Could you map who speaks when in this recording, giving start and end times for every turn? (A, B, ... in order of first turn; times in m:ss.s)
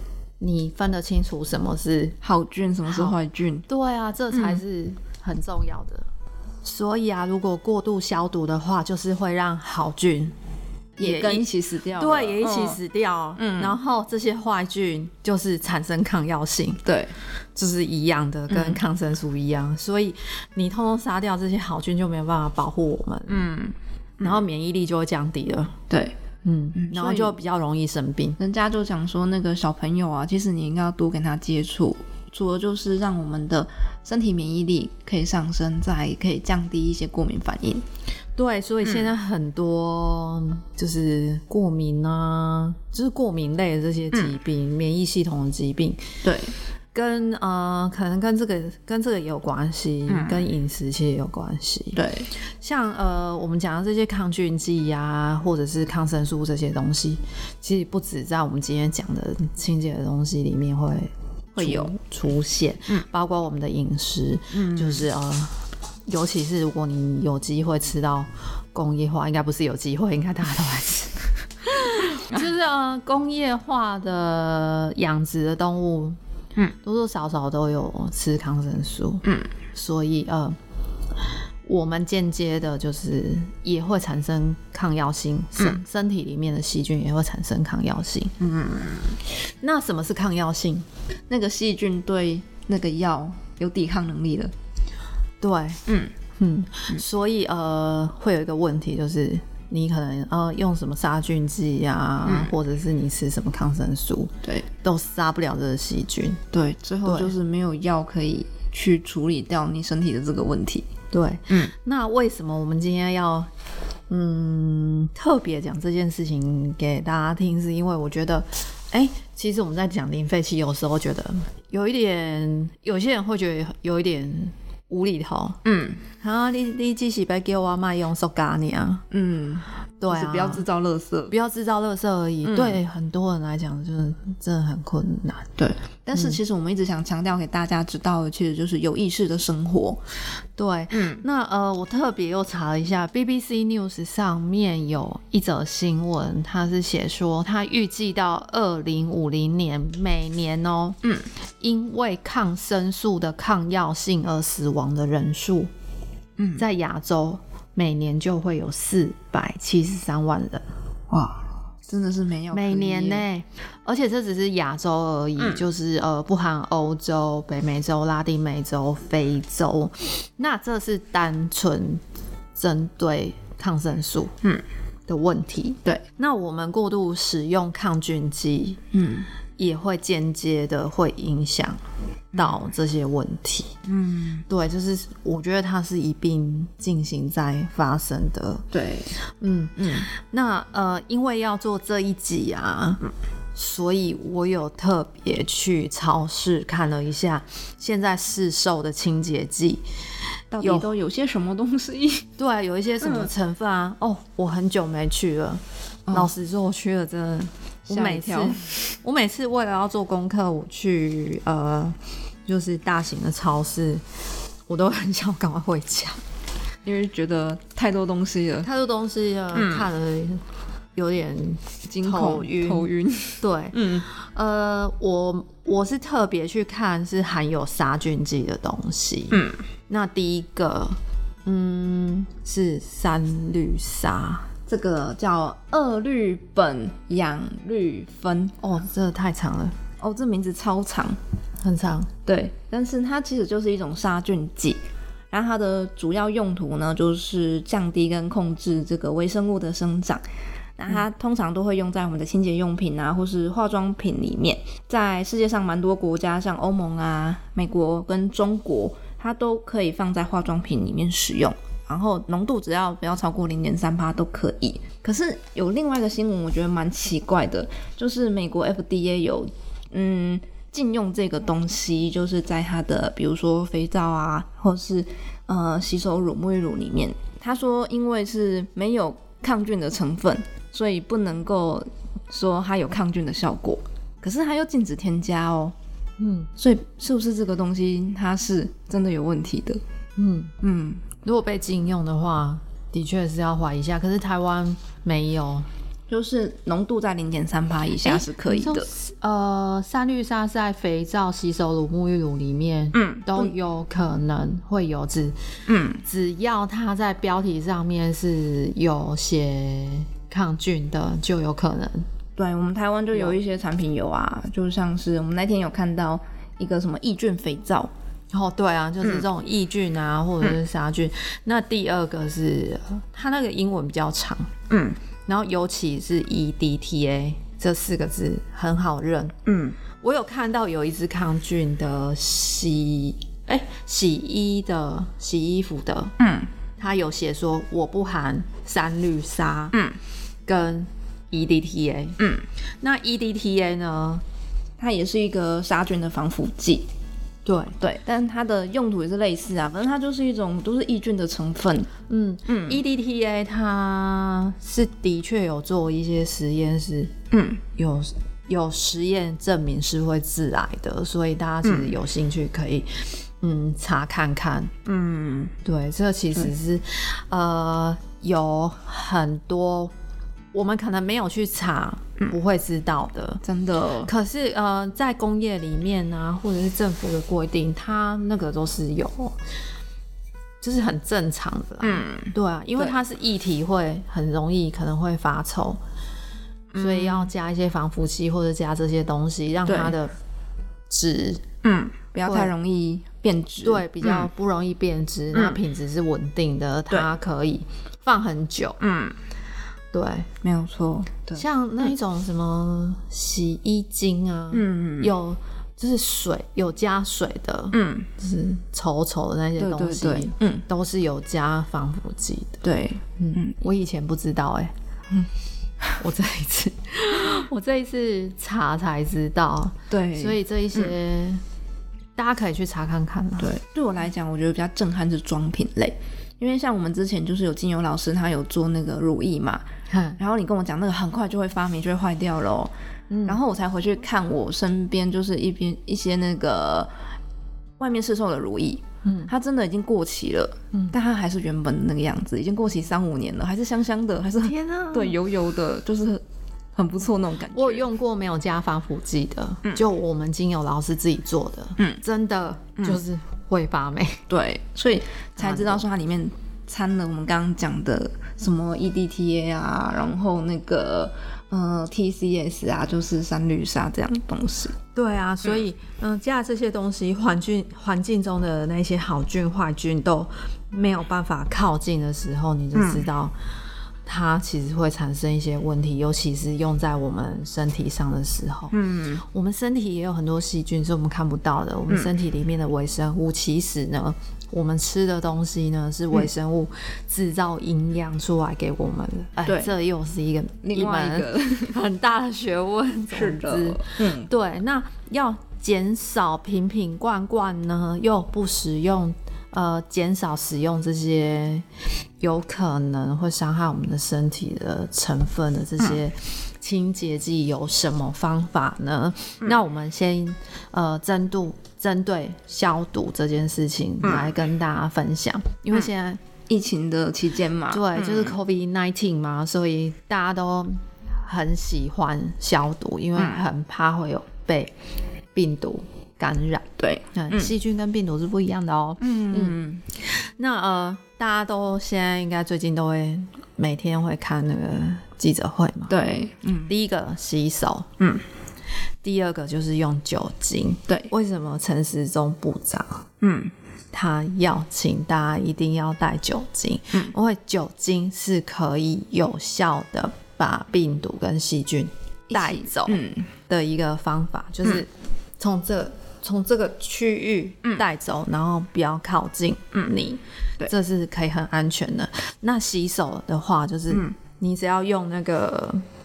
0:00.4-0:02.2 A
0:02.2-0:03.7 B
0:03.7-0:06.0 A
0:04.3-0:04.6 B
0:06.6-0:10.3 A
0:11.0-0:12.8 B
0:11.0-0:16.8 A
0:13.4-0:13.8 B
0:16.8-0:17.2 B
0:17.6-0:23.5 A
0:18.5-0:18.8 B
0:23.3-0:24.4 B
0:24.2-0:25.8 A
0:25.9-0:26.2 B
0:26.4-0:28.4 A
0:26.7-0:27.4 B
0:28.4-0:37.8 B
0:38.4-0:46.0 A
0:46.2-0:46.5 B
0:46.9-0:52.0 A
0:50.1-0:50.4 B
0:51.9-0:52.3 B
0:52.6-1:05.6 A
1:01.6-1:01.9 B
1:04.5-1:05.0 B
1:06.1-1:16.2 A
1:16.8-1:20.6 A
1:19.2-1:19.5 B
1:21.6-1:28.3 A
1:28.4-1:29.2 B
1:29.6-1:30.8 A
1:31.3-1:34.5 B
1:35.4-1:35.8 A
1:35.9-1:36.1 B
1:36.4-1:46.4 A
1:42.2-1:42.5 B
1:46.5-1:50.9 B
1:47.0-1:47.3 A
1:51.1-1:53.5 A
1:54.1-2:05.6 A
2:05.6-2:06.0 B
2:06.2-2:09.0 A
2:09.1-2:11.3 B
2:10.0-2:10.6 A
2:11.3-2:15.5 A
2:12.4-2:12.8 B
2:15.6-2:20.0 B
2:20.6-2:31.0 A
2:20.9-2:21.2 B
2:31.6-2:35.7 A
2:36.4-2:36.6 B
2:36.6-2:40.6 A
2:41.1-2:43.2 B
2:42.5-2:52.0 A
2:45.4-2:45.6 B
2:52.6-2:54.3 A
2:55.1-2:58.8 A
2:58.9-2:59.3 B
2:59.6-3:01.8 A
3:02.3-3:02.7 B
3:02.3-3:03.8 A
3:03.8-3:04.4 B
3:04.5-3:08.6 A
3:08.7-3:09.1 B
3:09.4-3:13.0 A
3:09.8-3:10.1 B
3:13.5-3:19.8 A
3:20.5-3:22.3 B
3:20.6-3:20.9 A
3:22.4-3:34.0 A
3:23.0-3:23.3 B
3:27.9-3:28.6 B
3:34.7-3:36.2 A
3:36.8-3:38.7 B
3:38.6-3:40.4 A
3:39.5-3:39.9 B
3:41.0-3:42.9 A
3:41.9-3:44.0 B
3:43.4-3:54.5 A
3:49.3-3:49.6 B
3:54.7-3:58.5 B
3:58.6-3:59.8 A
4:00.0-4:01.2 B
4:01.6-4:02.1 A
4:02.2-4:04.8 B
4:05.3-4:10.2 B
4:10.8-4:45.7 B
4:46.2-4:46.5 A
4:46.6-4:49.8 B
4:50.2-4:50.5 A
4:50.6-4:51.0 B
4:51.2-4:55.7 A
4:56.1-4:58.9 B
4:58.0-5:05.3 A
5:02.9-5:03.5 B
5:05.7-5:06.0 B
5:06.0-5:12.0 A
5:12.4-5:17.9 B
5:18.3-5:24.5 A
5:24.7-5:25.0 B
5:25.3-5:29.4 A
5:29.4-5:29.8 B
5:30.0-5:36.1 A
5:36.2-5:36.5 B
5:36.8-5:39.8 A
5:40.5-5:42.2 A
5:42.2-5:42.4 B
5:42.8-5:44.2 A
5:44.8-5:46.9 B
5:47.4-5:47.8 A
5:47.8-5:51.9 B
5:52.1-5:57.1 A
5:52.5-5:52.8 B
5:57.3-5:57.6 B
5:57.8-6:02.9 A
6:01.6-6:01.9 B
6:03.4-6:04.7 A
6:04.8-6:05.5 B
6:05.6-6:09.9 A
6:10.5-6:13.4 A
6:13.4-6:14.1 B
6:14.0-6:19.4 A
6:20.6-6:25.8 A
6:21.8-6:23.0 B
6:26.7-6:27.3 B
6:26.7-6:30.1 A
6:29.6-6:30.0 B
6:30.9-6:31.4 A
6:31.6-6:34.3 B
6:32.2-6:32.5 A
6:33.6-6:38.8 A
6:35.3-6:35.6 B
6:38.8-6:39.2 B
6:39.9-6:40.3 A
6:40.4-6:41.8 B
6:41.3-6:52.6 A
6:44.5-6:45.1 B
6:47.7-6:48.1 B
6:49.6-6:50.6 B
6:52.6-6:53.6 B
6:53.2-6:54.7 A
6:56.0-7:01.4 A
6:59.9-7:00.9 B
7:02.2-7:03.5 A
7:03.4-7:09.6 B
7:09.9-7:10.2 A
7:10.2-7:12.7 B
7:13.1-7:13.4 A
7:13.2-7:16.9 B
7:17.8-7:26.2 B
7:19.0-7:19.3 A
7:24.4-7:25.2 A
7:26.7-7:27.8 B
7:27.5-7:34.2 A
7:34.3-7:44.8 B
7:35.4-7:35.8 A
7:44.9-7:53.3 A
7:52.7-7:53.0 B
7:54.0-8:21.6 A
7:58.7-7:59.2 B
8:09.4-8:09.7 B
8:10.6-8:11.8 B
8:13.1-8:14.3 B
8:22.2-8:36.2 A
8:34.0-8:34.3 B
8:36.5-8:38.4 B
8:37.7-8:44.7 A
8:43.2-8:43.4 B
8:45.3-8:56.0 A
8:46.8-8:47.5 B
8:49.0-8:49.8 B
8:55.9-8:56.7 B
8:56.7-8:57.9 A
8:59.0-9:03.0 A
9:03.2-9:03.5 B
9:03.9-9:25.8 A
9:12.3-9:13.3 B